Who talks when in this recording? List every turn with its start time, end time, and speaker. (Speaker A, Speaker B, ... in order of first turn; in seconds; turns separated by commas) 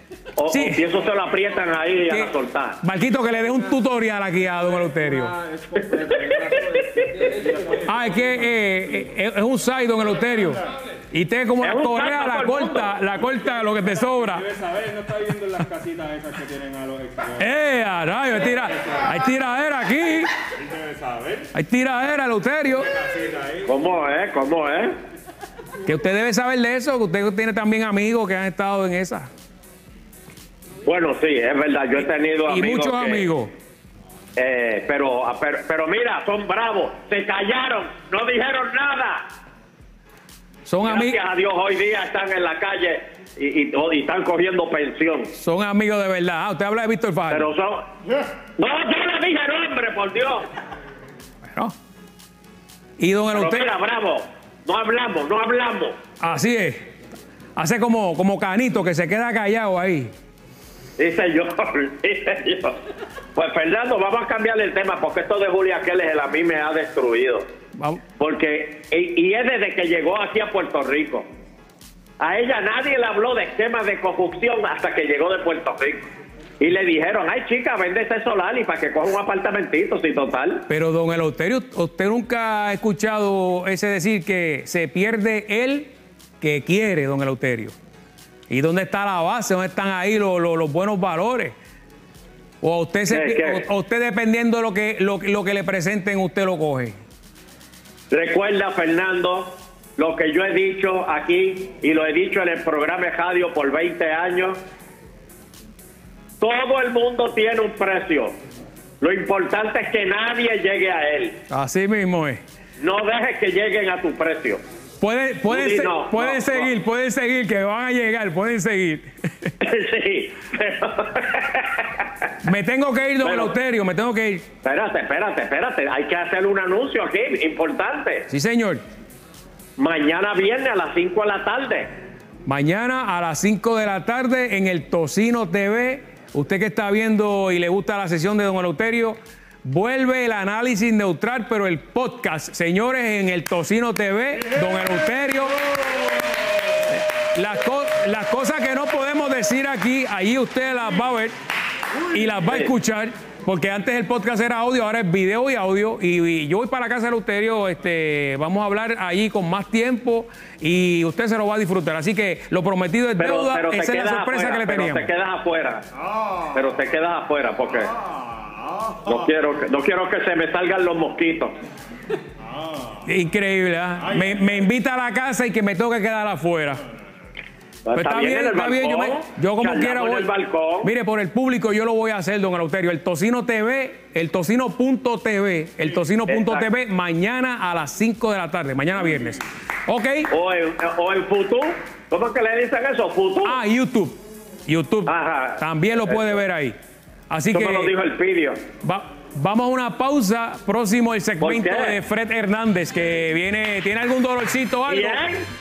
Speaker A: 0.4-2.8, Speaker B: 0.5-0.8, Speaker B: 2.8-5.4, Speaker C: 5.5-7.8, Speaker A: 6.1-7.2, Speaker B: 7.8-14.6, Speaker A: 11.6-12.9, Speaker C: 14.6-17.3, Speaker B: 17.3-20.3, Speaker C: 20.8-21.4, Speaker B: 21.5-23.0, Speaker C: 23.1-23.6, Speaker A: 23.6-24.9, Speaker B: 25.9-29.3, Speaker A: 30.8-33.3, Speaker B: 32.5-33.5, Speaker A: 34.4-39.2, Speaker B: 40.7-41.2, Speaker A: 40.9-45.3, Speaker B: 45.4-47.5, Speaker A: 47.3-47.9, Speaker A: 48.6-50.5, Speaker B: 51.5-51.7, Speaker B: 53.0-53.7, Speaker A: 53.3-56.0, Speaker B: 56.2-56.8, Speaker B: 57.6-60.1, Speaker A: 61.0-62.8, Speaker A: 63.4-67.5, Speaker B: 67.8-68.0, Speaker A: 68.2-71.3, Speaker A: 72.2-76.1, Speaker A: 76.6-80.7, Speaker B: 80.7-85.9, Speaker B: 86.4-87.7, Speaker B: 88.5-91.5, Speaker B: 92.6-97.0, Speaker A: 93.1-93.7, Speaker A: 98.1-104.6, Speaker A: 106.4-108.3, Speaker A: 109.0-111.4, Speaker B: 111.5-112.4, Speaker A: 112.8-114.6, Speaker B: 115.0-119.5, Speaker A: 115.5-116.7, Speaker A: 119.6-122.1, Speaker B: 122.4-124.5, Speaker A: 123.2-123.5, Speaker A: 124.6-128.3, Speaker B: 128.3-128.8, Speaker A: 129.8-131.9, Speaker B: 132.5-145.6, Speaker B: 146.9-151.3, Speaker B: 152.1-165.1, Speaker A: 152.5-152.7, Speaker A: 163.2-165.8, Speaker A: 166.5-168.0, Speaker A: 169.1-171.6, Speaker B: 173.0-176.8, Speaker A: 177.9-180.9, Speaker B: 178.0-190.3, Speaker A: 186.3-186.7, Speaker A: 190.3-193.6, Speaker B: 193.4-196.8, Speaker A: 195.1-196.4, Speaker B: 197.3-197.9, Speaker A: 197.5-198.6, Speaker B: 198.8-205.2, Speaker A: 201.4-202.0, Speaker A: 204.9-205.4